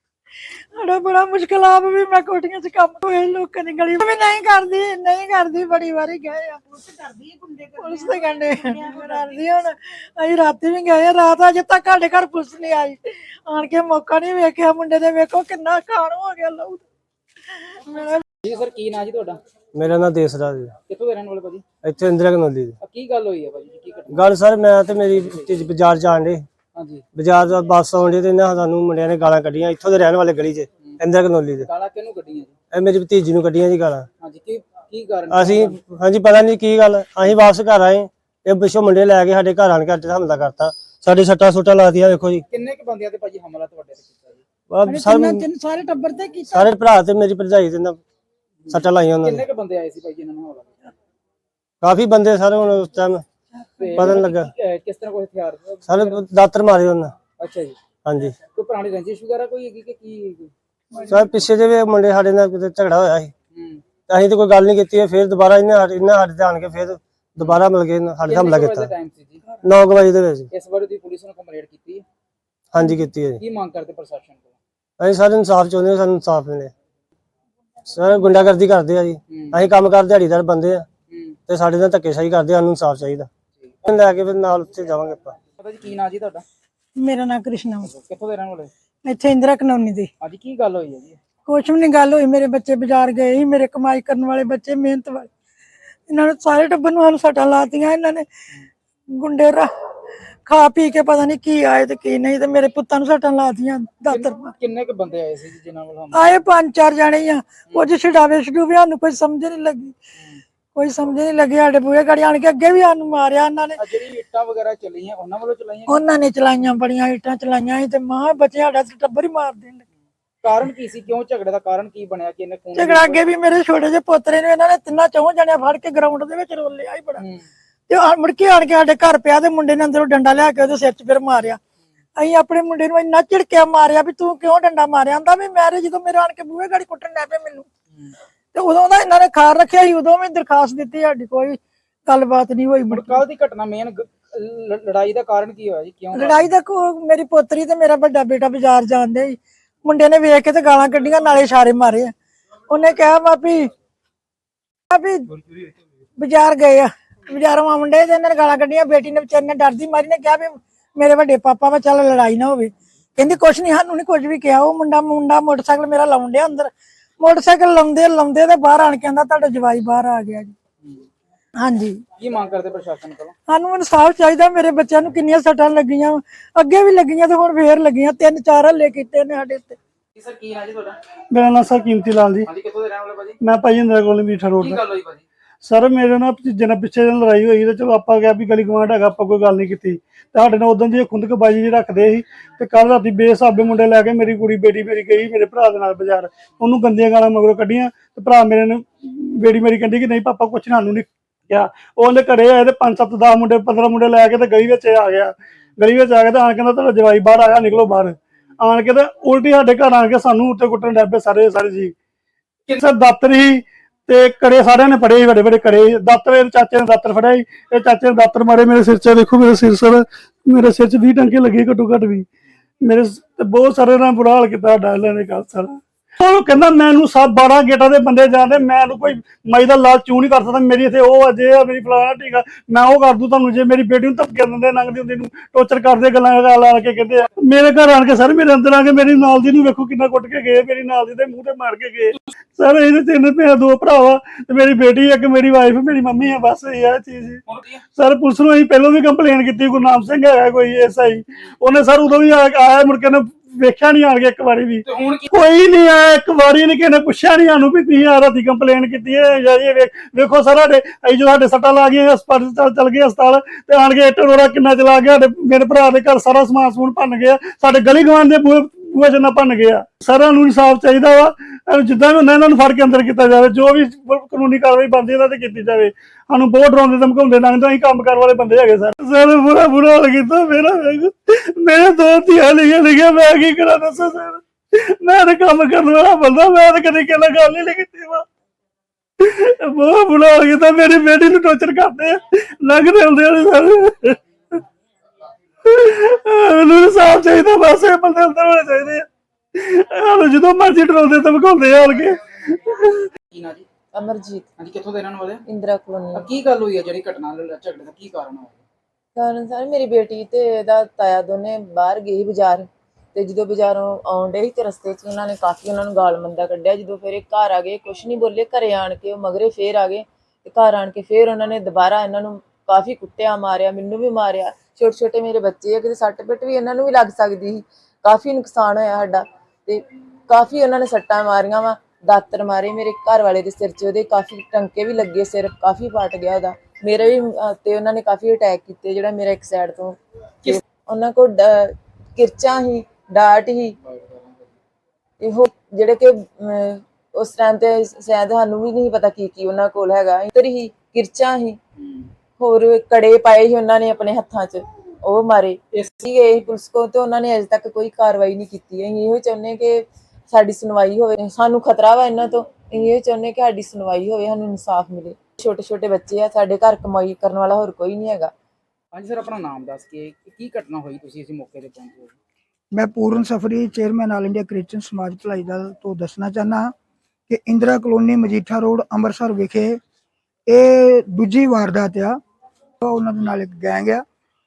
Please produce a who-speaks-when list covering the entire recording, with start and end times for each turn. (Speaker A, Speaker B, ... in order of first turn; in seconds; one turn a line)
Speaker A: 0.7-6.6
Speaker A: 7.6-16.8
Speaker A: 17.7-18.2
Speaker B: 18.4-19.4
Speaker C: 19.8-20.7
Speaker B: 20.9-21.6
Speaker C: 21.8-22.7
Speaker B: 22.8-25.8
Speaker C: 24.2-26.4
Speaker B: 26.8-27.1
Speaker C: 27.2-31.6
Speaker B: 30.8-32.5
Speaker C: 32.7-34.0
Speaker B: 34.2-35.8
Speaker C: 35.3-42.4
Speaker B: 42.5-44.5
Speaker C: 44.7-45.4
Speaker A: 44.8-46.7
Speaker C: 46.5-48.0
Speaker B: 48.6-50.9
Speaker C: 48.7-49.4
Speaker C: 51.8-53.2
Speaker B: 53.8-56.3
Speaker C: 54.0-54.5
Speaker C: 55.9-57.1
Speaker B: 57.4-57.8
Speaker C: 58.0-58.3
Speaker B: 58.5-60.5
Speaker C: 61.1-63.3
Speaker B: 63.5-63.9
Speaker C: 64.1-68.8
Speaker B: 67.4-67.7
Speaker B: 68.2-69.6
Speaker C: 69.7-70.5
Speaker B: 70.5-72.0
Speaker C: 72.7-73.4
Speaker B: 72.8-74.6
Speaker C: 75.0-76.7
Speaker C: 77.9-80.8
Speaker B: 79.3-79.8
Speaker B: 81.1-81.4
Speaker C: 81.5-83.3
Speaker B: 83.5-84.0
Speaker C: 83.9-85.3
Speaker B: 85.6-86.4
Speaker A: 87.0-87.9
Speaker B: 87.8-88.7
Speaker A: 89.0-90.1
Speaker B: 90.2-91.2
Speaker A: 91.5-95.3
Speaker A: 96.1-98.2
Speaker A: 99.1-99.7
Speaker A: 100.5-104.5
Speaker B: 104.1-106.4
Speaker A: 106.1-109.9
Speaker A: 110.7-113.8
Speaker B: 113.8-116.0
Speaker A: 115.9-119.8
Speaker B: 120.4-123.2
Speaker A: 122.8-127.2
Speaker B: 127.2-127.5
Speaker A: 127.9-131.6
Speaker A: 132.2-137.7
Speaker A: 138.5-143.2
Speaker B: 142.9-146.5
Speaker A: 146.1-152.1
Speaker A: 152.7-153.7
Speaker A: 154.9-155.3
Speaker A: 156.2-170.5
Speaker A: 171.6-172.0
Speaker B: 172.2-173.3
Speaker A: 173.5-179.8
Speaker B: 180.2-181.0
Speaker D: 181.3-182.5
Speaker B: 182.4-183.4
Speaker D: 183.4-184.8
Speaker B: 184.6-185.2
Speaker D: 185.7-211.9
Speaker D: 212.8-222.3
Speaker D: 222.8-247.4
Speaker B: 247.5-247.8
Speaker D: 247.9-288.2
Speaker B: 254.8-255.3
Speaker D: 289.2-294.2
Speaker D: 295.6-303.1
Speaker B: 303.3-303.7
Speaker E: 303.9-304.5
Speaker B: 304.6-305.4
Speaker E: 305.5-306.3
Speaker B: 306.1-308.6
Speaker E: 309.2-343.8
Speaker B: 343.9-344.6
Speaker E: 345.2-351.6
Speaker B: 351.8-352.1
Speaker E: 352.4-368.3
Speaker B: 355.7-356.0
Speaker B: 368.9-372.1
Speaker F: 372.7-376.7
Speaker F: 377.3-379.8
Speaker F: 380.5-382.2
Speaker F: 382.8-384.0